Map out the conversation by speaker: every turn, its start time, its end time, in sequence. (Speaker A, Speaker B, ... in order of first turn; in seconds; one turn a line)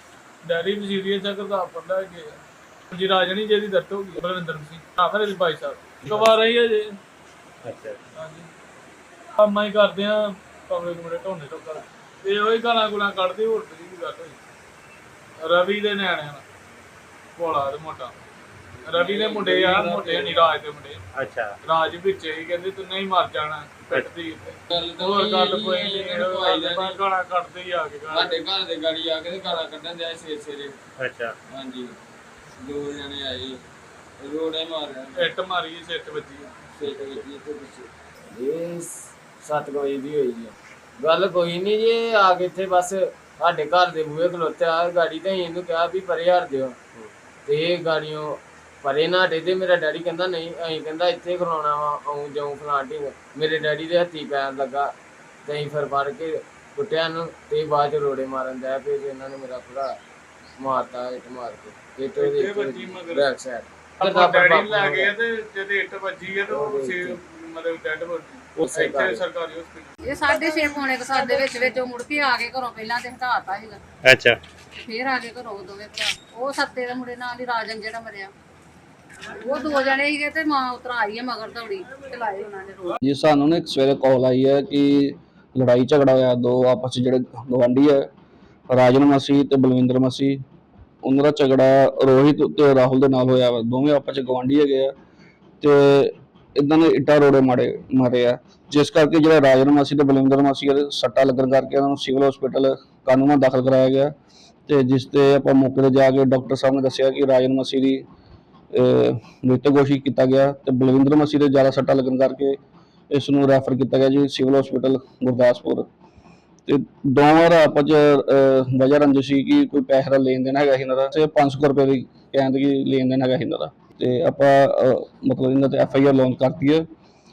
Speaker A: 0.5-2.4
Speaker A: 2.9-7.0
Speaker B: 6.0-6.3
Speaker B: 7.7-8.0
Speaker A: 8.2-8.5
Speaker A: 9.4-14.4
Speaker A: 15.4-16.4
Speaker A: 17.4-18.1
Speaker A: 18.9-21.0
Speaker C: 18.9-20.5
Speaker B: 21.1-21.6
Speaker A: 21.6-28.4
Speaker C: 24.7-27.0
Speaker C: 28.1-30.8
Speaker B: 31.0-31.4
Speaker C: 31.5-31.9
Speaker C: 32.6-33.6
Speaker C: 34.2-35.3
Speaker A: 35.1-36.5
Speaker C: 36.8-46.8
Speaker C: 47.5-54.9
Speaker C: 55.5-59.9
Speaker C: 60.6-65.1
Speaker A: 62.2-63.3
Speaker A: 64.0-70.0
Speaker C: 66.5-67.2
Speaker C: 68.7-69.2
Speaker D: 70.1-73.8
Speaker B: 74.0-74.4
Speaker D: 74.8-78.3
Speaker D: 79.3-82.9
Speaker E: 83.0-88.1
Speaker E: 88.7-90.4
Speaker E: 91.0-94.9
Speaker E: 95.6-104.1
Speaker E: 104.7-108.0
Speaker E: 108.7-112.6
Speaker E: 113.1-115.9
Speaker E: 116.7-126.8